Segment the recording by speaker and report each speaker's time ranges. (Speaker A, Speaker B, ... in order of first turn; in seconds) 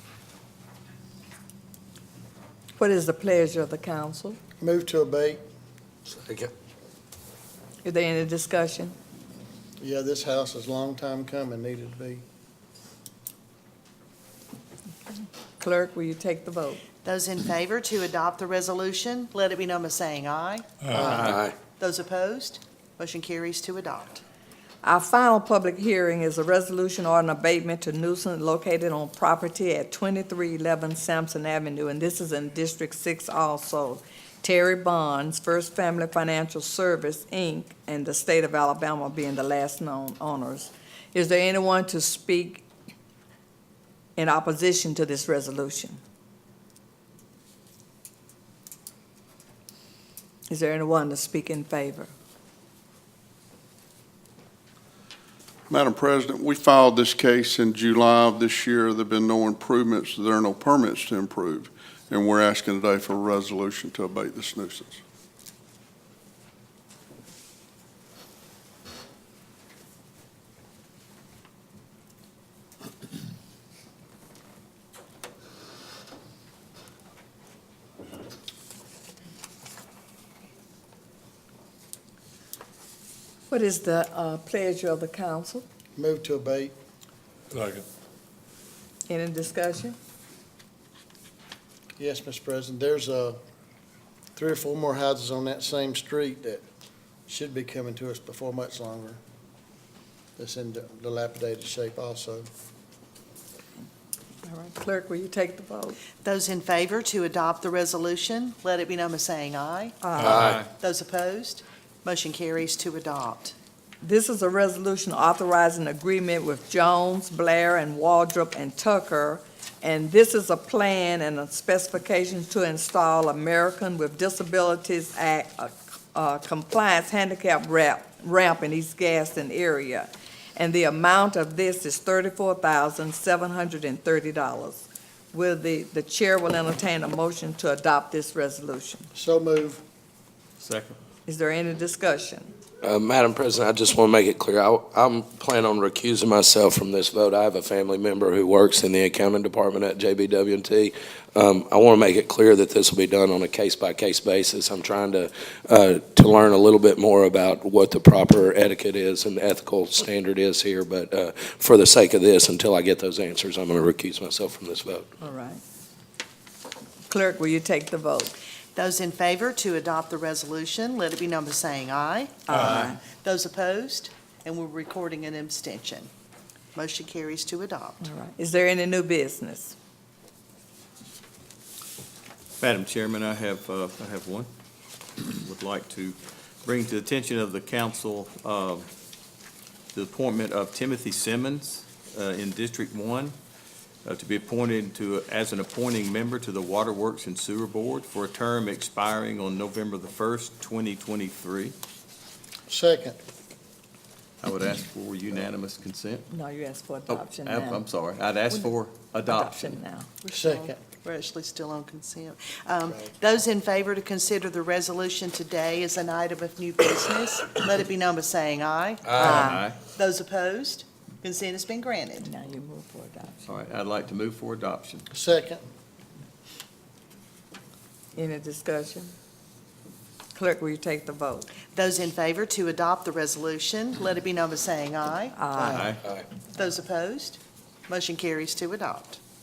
Speaker A: 2.8-4.4, 7.8-8.9, 15.6-16.8, 24.8-42.6, 44.2-46.0, 50.5-52.1, 83.5-85.6, 89.1-90.0, 104.4-106.0, 110.0-110.4, 114.0-139.1, 141.2-142.5, 165.2-165.6, 167.1-168.3, 172.5-173.0, 178.0-179.7, 206.3-207.8, 209.2-210.1, 219.2-219.6, 222.2-223.4, 228.1-229.1, 230.3-231.5, 235.3-235.8
Speaker B: 4.6-5.4, 9.8-12.2, 86.0-86.7, 92.0-93.4, 94.3-96.6, 97.3-99.2, 100.4-102.5, 139.1-139.8, 202.7-203.2, 210.3-210.8, 212.9-213.1, 225.1-225.6
Speaker C: 6.1-6.5, 21.1-21.5, 87.5-87.8, 110.2-110.5, 142.8-165.0
Speaker D: 17.0-24.2, 106.2-113.5, 168.7-172.4, 173.0-176.1, 176.7-178.0, 210.2-222.3, 231.7-235.8, 236.5-239.2
Speaker E: 20.9-21.4, 110.3-110.7, 140.6-141.0, 172.5-172.9, 182.6-184.5, 185.2-188.9, 189.9-193.3, 194.0-201.7, 204.4-206.2, 207.1-209.8, 219.2-219.8, 223.4-225.0, 235.6-236.0
Speaker F: 55.7-65.0